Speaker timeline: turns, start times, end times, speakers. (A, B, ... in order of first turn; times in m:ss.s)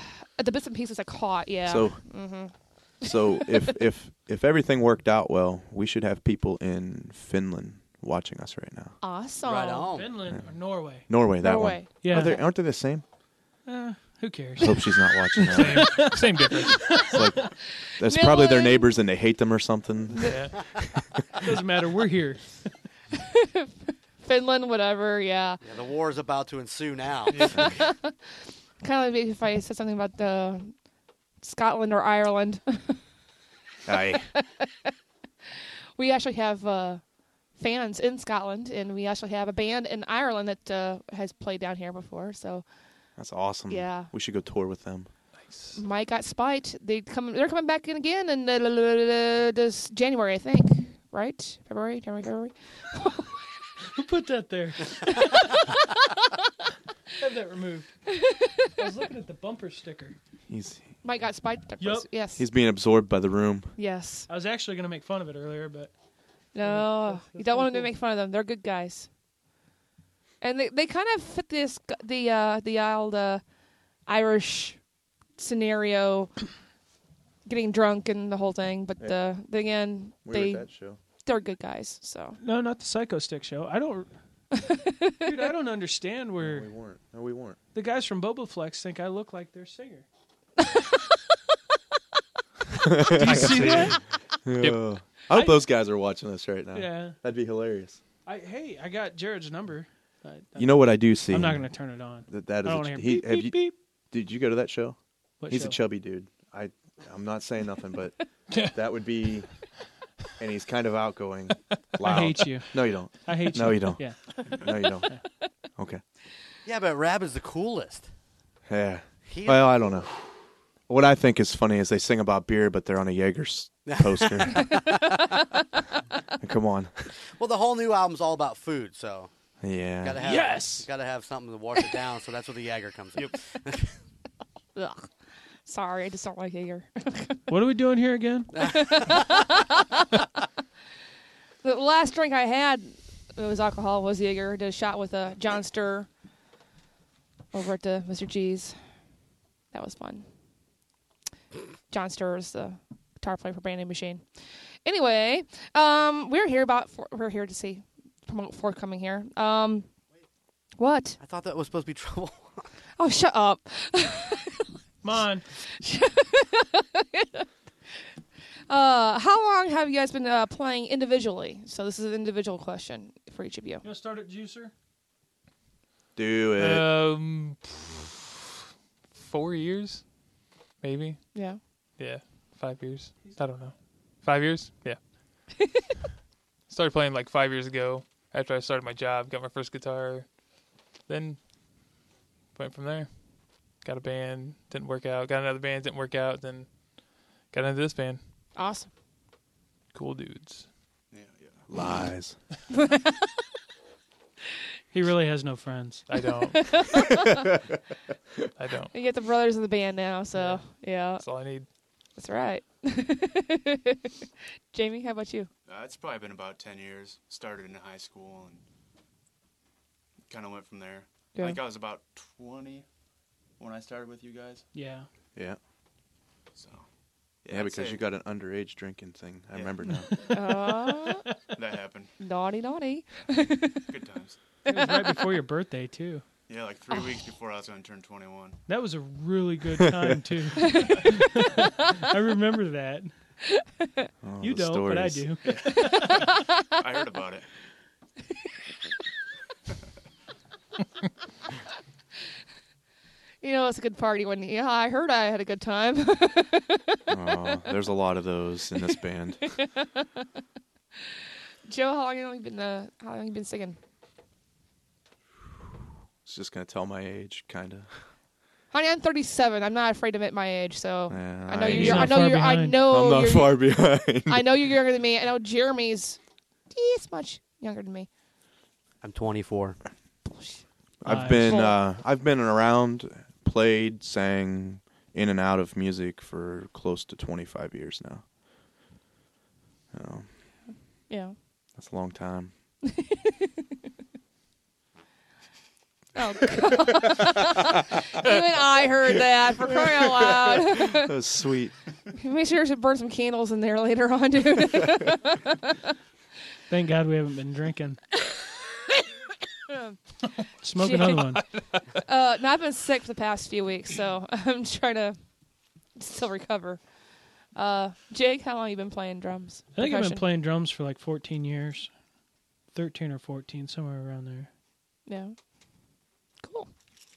0:00.4-0:03.5 A
0:01.7-0:02.0 B
0:03.0-0:09.0 B
0:09.0-0:09.9 A
0:09.4-0:10.2 C
0:09.8-0:11.1 D
0:10.3-0:13.0 B
0:11.4-0:12.4 A
0:12.0-0:12.4 D
0:13.7-0:17.5 D
0:14.6-0:16.1 B
0:15.5-0:16.8 E
0:17.1-0:20.7 B
0:18.0-0:18.9 A
0:20.2-0:20.6 E
0:21.4-0:22.6 D
0:23.4-0:25.6 A
0:25.6-0:27.5 C
0:27.5-0:28.2 A
0:28.8-0:30.8 A
0:31.4-0:33.0 A
0:33.9-0:34.3 B
0:34.4-0:34.9 A
0:36.0-0:37.0 A
0:37.5-0:42.7 A
0:43.2-0:45.1 B
0:43.7-0:44.1 A
0:45.4-0:45.8 E
0:45.8-0:53.4 A
0:54.0-0:55.7 D
0:57.2-0:57.9 D
0:58.2-0:58.7 A
0:58.8-1:00.2 D
1:00.5-1:00.9 B
1:01.0-1:02.4 A
1:01.8-1:02.1 D
1:02.4-1:03.8 B
1:03.8-1:04.3 A
1:04.3-1:05.9 D
1:06.5-1:09.1 A
1:06.6-1:07.9 D
1:10.4-1:13.4 A
1:14.1-1:14.8 A
1:15.4-1:16.4 A
1:17.5-1:20.7 A
1:20.2-1:21.0 B
1:21.2-1:22.4 A
1:22.4-1:24.1 D
1:24.6-1:25.5 A
1:25.2-1:26.7 D
1:26.4-1:27.6 B
1:27.7-1:30.1 D
1:32.8-1:33.9 B
1:33.2-1:34.0 D
1:33.2-1:34.0 E
1:34.4-1:38.0 B
1:35.3-1:35.7 D
1:36.7-1:37.2 D
1:38.3-1:43.8 D
1:40.6-1:45.0 B
1:45.4-1:45.8 D
1:45.5-1:48.2 B
1:48.7-1:49.5 B
1:50.4-1:55.1 B
1:52.0-1:54.4 D
1:55.8-1:56.0 B
1:56.6-1:58.1 C
1:58.7-2:00.1 B
1:59.3-2:00.0 C
2:00.9-2:04.8 B
2:03.9-2:05.1 C
2:06.4-2:07.1 B
2:07.4-2:09.3 C
2:09.6-2:10.4 B
2:10.0-2:14.0 C
2:10.2-2:10.9 D
2:14.8-2:15.1 A
2:15.7-2:17.4 A
2:17.5-2:18.5 D
2:18.6-2:19.2 C
2:18.6-2:20.3 A
2:21.6-2:26.1 A
2:27.5-2:28.8 A
2:29.7-2:30.3 A
2:31.9-2:34.2 A
2:34.8-2:39.9 A
2:40.8-2:41.2 A
2:41.2-2:42.7 C
2:43.0-2:44.7 A
2:45.0-2:45.4 D
2:45.6-2:47.4 A
2:48.7-2:53.8 A
2:53.8-2:54.7 D
2:56.2-2:56.9 B
2:56.6-2:58.1 E
2:59.1-3:00.1 E
3:00.8-3:01.2 E
3:01.3-3:01.6 A
3:02.0-3:05.0 E
3:03.2-3:03.5 D
3:06.7-3:10.3 E
3:11.1-3:11.4 E
3:12.6-3:16.7 E
3:17.4-3:18.2 E
3:18.6-3:18.9 A
3:19.9-3:20.7 E
3:21.1-3:21.7 F
3:21.7-3:22.4 B
3:22.8-3:23.1 A
3:24.9-3:26.1 D
3:26.1-3:27.1 E
3:26.6-3:27.3 A
3:28.6-3:28.9 E
3:28.9-3:31.2 A
3:30.4-3:30.6 E
3:31.1-3:31.7 E
3:32.2-3:34.1 A
3:34.7-3:35.5 A
3:35.7-3:38.6 F
3:40.3-3:42.9 F
3:43.6-3:44.7 F
3:44.7-3:45.1 D
3:46.6-3:46.9 F
3:47.4-3:48.0 F
3:47.5-3:50.1 B
3:49.5-3:49.9 F
3:50.1-3:51.0 D
3:50.3-3:51.3 A
3:51.5-3:52.1 F
3:52.2-3:53.8 A
3:53.9-3:54.4 F
3:54.7-3:56.2 D
3:56.5-3:58.6 F
3:58.7-4:03.1 D
4:00.7-4:01.1 A
4:04.2-4:05.3 B
4:04.4-4:06.0 D
4:05.4-4:07.5 F
4:13.4-4:17.0 A
4:17.1-4:19.5 B
4:19.6-4:20.0 A
4:21.7-4:23.8 A
4:26.2-4:28.0 B
4:28.7-4:36.2 A
4:31.1-4:34.7 B
4:31.6-4:32.8 D
4:36.7-4:38.1 A
4:39.0-4:39.8 C
4:40.2-4:40.6 A
4:41.0-4:48.2 B
4:41.0-4:41.7 D
4:41.5-4:41.8 A
4:49.9-4:50.3 B
4:51.1-4:51.4 A
4:51.8-4:52.5 B
4:52.9-4:53.5 A
4:56.2-5:01.1 A
4:59.9-5:01.7 B
5:02.2-5:05.8 A
5:06.7-5:08.0 D
5:09.7-5:10.0 A
5:10.6-5:11.5 D
5:10.8-5:11.2 A
5:11.9-5:15.2 A
5:16.0-5:16.8 A
5:17.5-5:20.2 A
5:19.7-5:21.9 D
5:22.7-5:24.5 D
5:25.1-5:25.4 A
5:26.4-5:26.7 A